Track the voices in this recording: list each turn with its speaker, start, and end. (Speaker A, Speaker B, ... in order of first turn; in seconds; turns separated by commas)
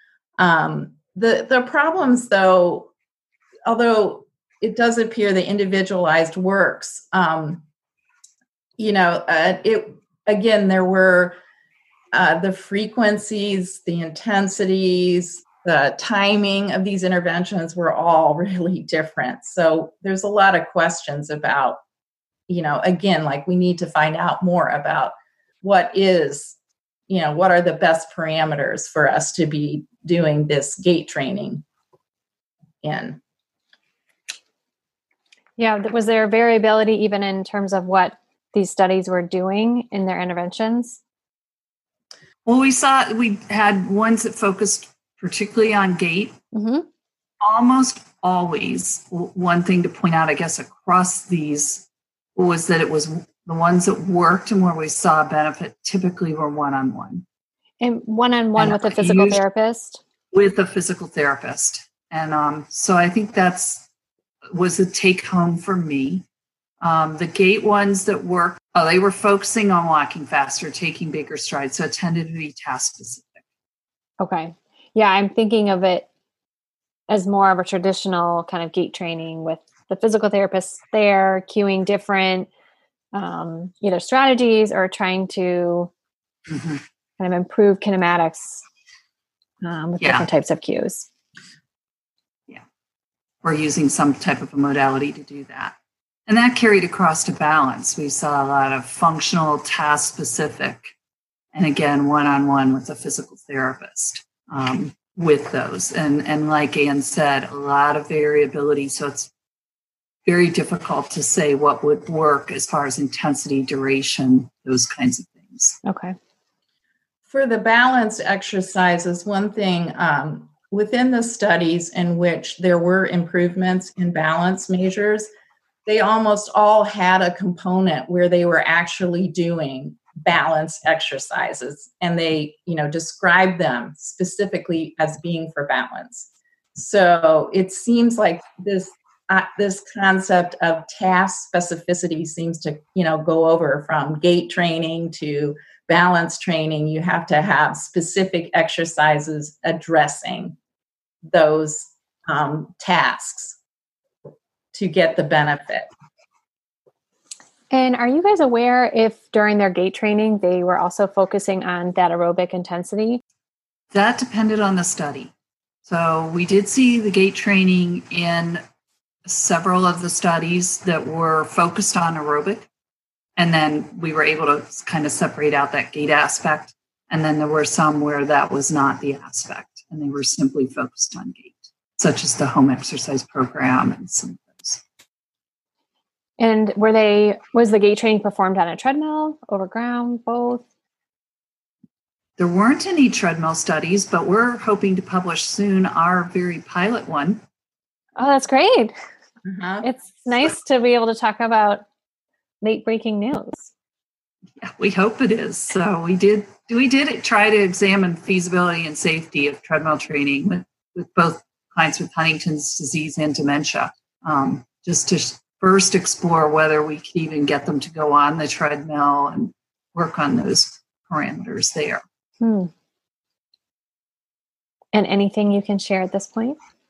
Speaker A: 0.4-2.9, Speaker A: 3.6-7.6, Speaker A: 8.8-11.4, Speaker A: 12.1-21.8, Speaker A: 22.5-26.6, Speaker A: 27.1-31.6, Speaker A: 32.8-33.2, Speaker B: 35.6-41.0, Speaker C: 42.5-46.4, Speaker B: 46.5-46.9, Speaker C: 47.4-57.2, Speaker B: 57.8-60.0, Speaker C: 58.5-59.4, Speaker C: 60.3-63.9, Speaker C: 64.5-66.2, Speaker C: 66.8-73.4, Speaker B: 74.2-76.1, Speaker B: 77.1-82.5, Speaker B: 83.1-85.9, Speaker C: 86.5-86.8, Speaker B: 87.2-88.6, Speaker B: 89.6-91.1, Speaker C: 90.0-90.3, Speaker C: 93.4-95.8, Speaker C: 96.3-100.9, Speaker C: 101.5-109.3, Speaker C: 110.2-115.8, Speaker B: 115.8-116.1, Speaker A: 117.3-125.3, Speaker A: 125.9-150.6, Speaker A: 151.3-153.6, Speaker A: 154.7-155.9, Speaker B: 157.7-163.2, Speaker C: 163.9-165.3, Speaker C: 165.9-168.6, Speaker C: 169.2-172.7, Speaker C: 173.4-184.8, Speaker B: 186.4-190.6, Speaker C: 192.4-197.4, Speaker B: 198.2-198.9, Speaker A: 199.4-199.9, Speaker B: 199.8-201.8, Speaker B: 202.6-203.7, Speaker C: 204.6-222.0, Speaker B: 222.4-222.7, Speaker B: 224.9-226.6